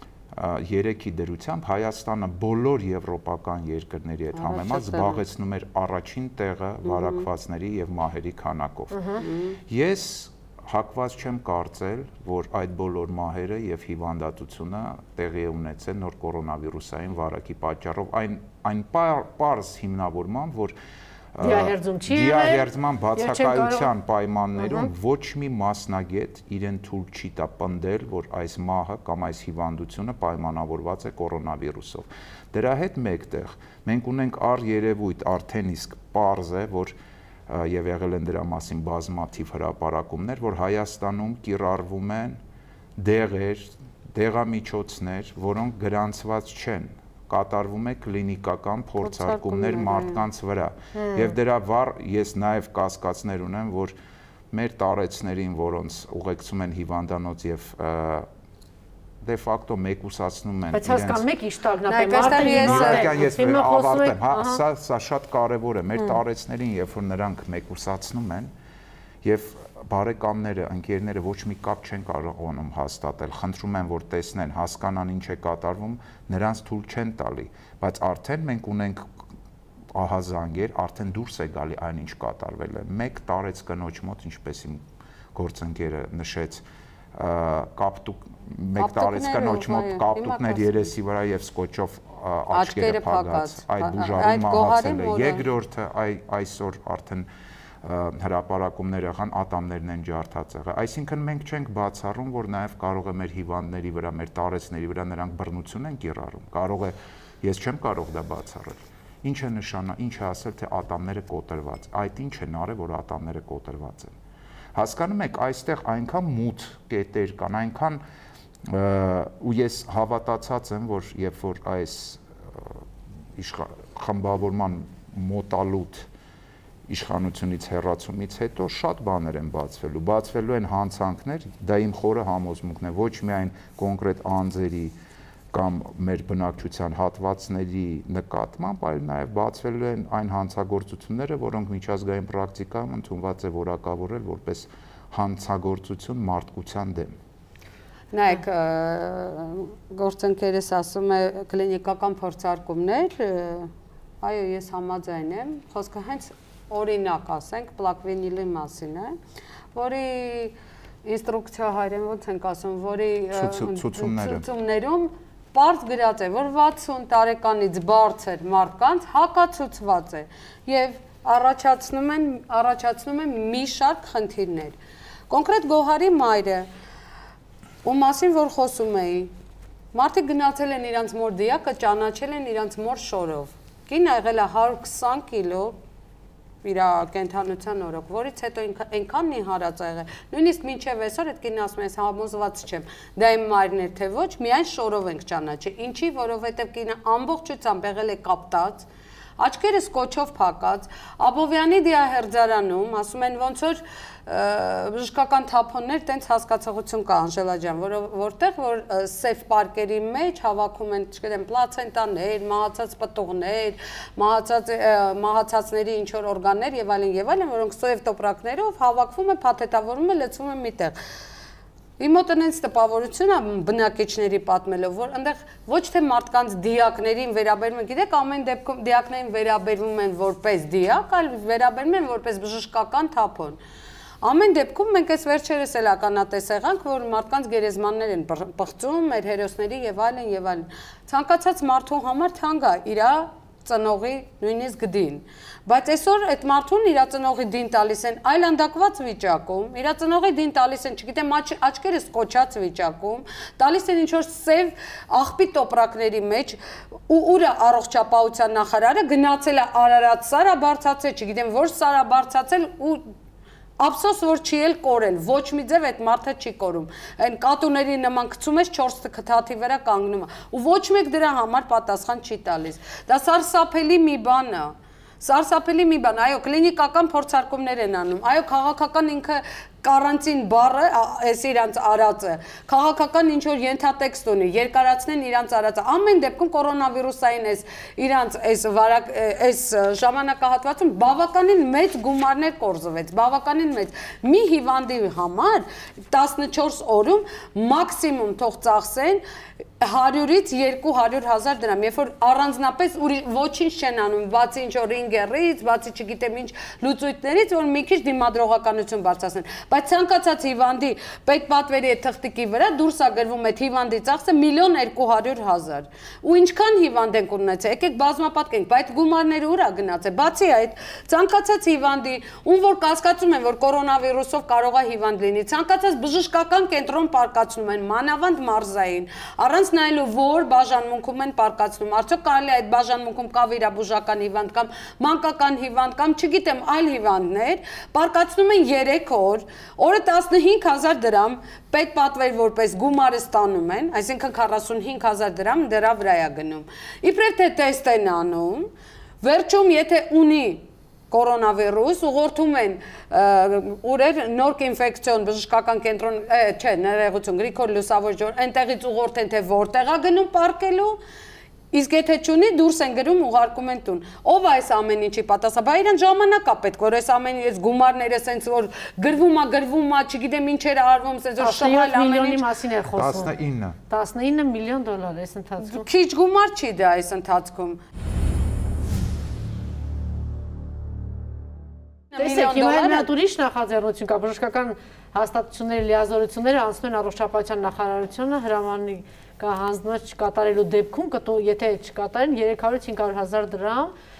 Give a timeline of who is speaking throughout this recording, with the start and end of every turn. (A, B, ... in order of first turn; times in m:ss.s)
0:00.3-0:20.7 A
0:04.4-0:05.2 B
0:06.9-0:07.2 B
0:09.2-0:09.6 B
0:21.3-0:37.0 A
0:21.4-0:23.9 C
0:24.6-0:24.9 C
0:37.5-0:42.4 A
0:43.0-0:53.9 A
0:49.0-0:50.2 B
0:50.9-0:51.3 C
0:54.5-0:58.3 A
0:59.2-1:01.2 A
1:00.7-1:04.6 C
1:01.9-1:03.1 B
1:02.5-1:08.5 A
1:09.2-1:19.0 A
1:19.9-1:37.3 A
1:28.8-1:30.9 B
1:32.5-1:35.4 B
1:37.8-1:54.1 A
1:54.7-1:58.0 A
1:58.6-2:06.1 A
2:06.9-2:14.9 A
2:15.5-2:27.2 A
2:28.1-2:39.2 B
2:39.7-2:54.7 B
2:43.3-2:44.4 A
2:55.3-2:56.7 B
2:57.8-2:59.3 B
2:59.9-3:05.8 B
3:06.6-3:18.9 B
3:19.4-3:40.9 B
3:42.0-3:53.6 B
3:54.2-4:16.6 B
4:17.1-4:23.1 B
4:23.8-4:59.2 B
4:59.8-5:48.7 B
5:49.2-6:01.0 B
6:01.7-6:12.4 B
6:11.4-6:13.3 C
6:13.0-6:13.8 A
6:13.9-6:15.8 C
6:15.6-6:17.8 B
6:22.1-6:23.1 B
6:22.2-6:33.9 C